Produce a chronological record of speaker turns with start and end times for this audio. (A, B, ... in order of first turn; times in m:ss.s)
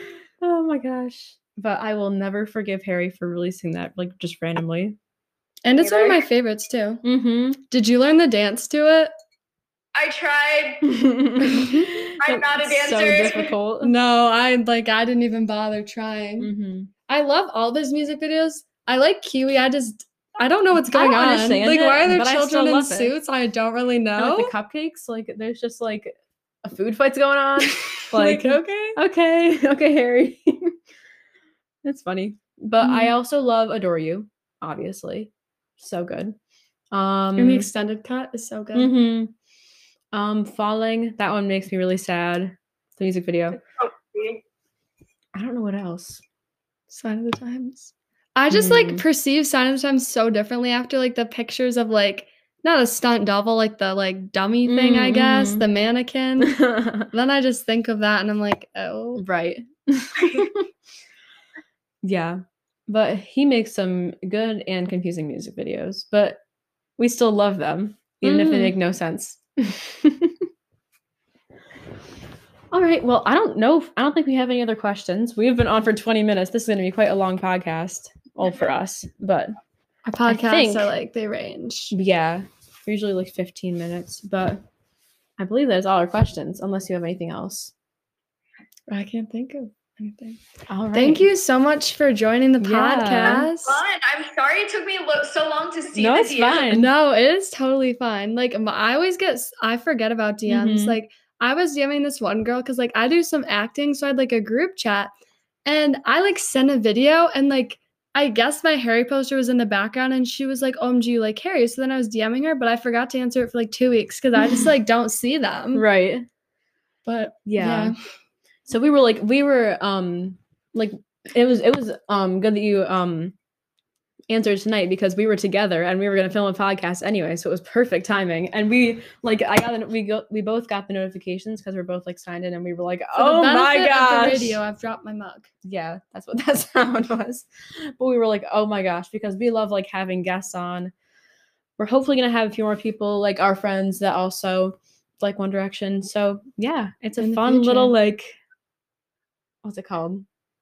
0:00.4-0:05.0 A
0:05.6-0:07.0 B
0:05.8-0:06.2 A
0:07.0-0:07.6 A
0:07.7-0:09.1 B
0:10.0-0:10.8 C
0:10.8-0:13.9 A
0:11.4-0:11.9 B
0:12.2-0:13.5 C
0:13.8-0:16.5 B
0:16.4-0:16.9 A
0:17.1-0:24.5 B
0:20.7-0:23.1 A
0:24.2-0:30.7 A
0:28.0-0:29.0 B
0:31.8-0:36.4 A
0:32.8-0:33.1 B
0:36.9-0:37.7 A
0:37.4-0:38.9 B
0:38.7-0:39.3 A
0:40.1-0:43.6 A
0:43.8-0:44.4 C
0:45.4-0:46.2 A
0:46.9-0:56.6 B
0:48.5-0:49.0 A
0:54.7-0:55.6 A
0:56.5-0:57.1 A
0:57.1-0:59.2 B
0:59.2-1:00.6 A
1:02.0-1:06.4 A
1:07.0-1:10.4 A
1:08.2-1:08.8 B
1:12.7-1:19.5 A
1:20.0-1:21.9 B
1:20.2-1:20.9 A
1:21.9-1:24.6 A
1:25.4-1:27.7 A
1:28.9-1:30.4 B
1:30.7-1:31.2 A
1:30.9-1:33.8 B
1:32.6-1:33.5 A
1:33.2-1:36.6 C
1:35.9-1:36.9 A
1:36.6-1:45.1 B
1:40.5-1:41.0 A
1:45.6-1:55.8 B
1:54.4-1:54.7 A
1:55.7-1:56.2 A
1:57.0-1:57.9 B
1:57.4-1:57.9 A
1:58.7-2:03.3 A
2:04.3-2:14.6 A
2:13.1-2:15.5 B
2:15.6-2:20.9 A
2:21.8-2:28.4 A
2:27.2-2:27.9 B
2:29.6-2:30.2 A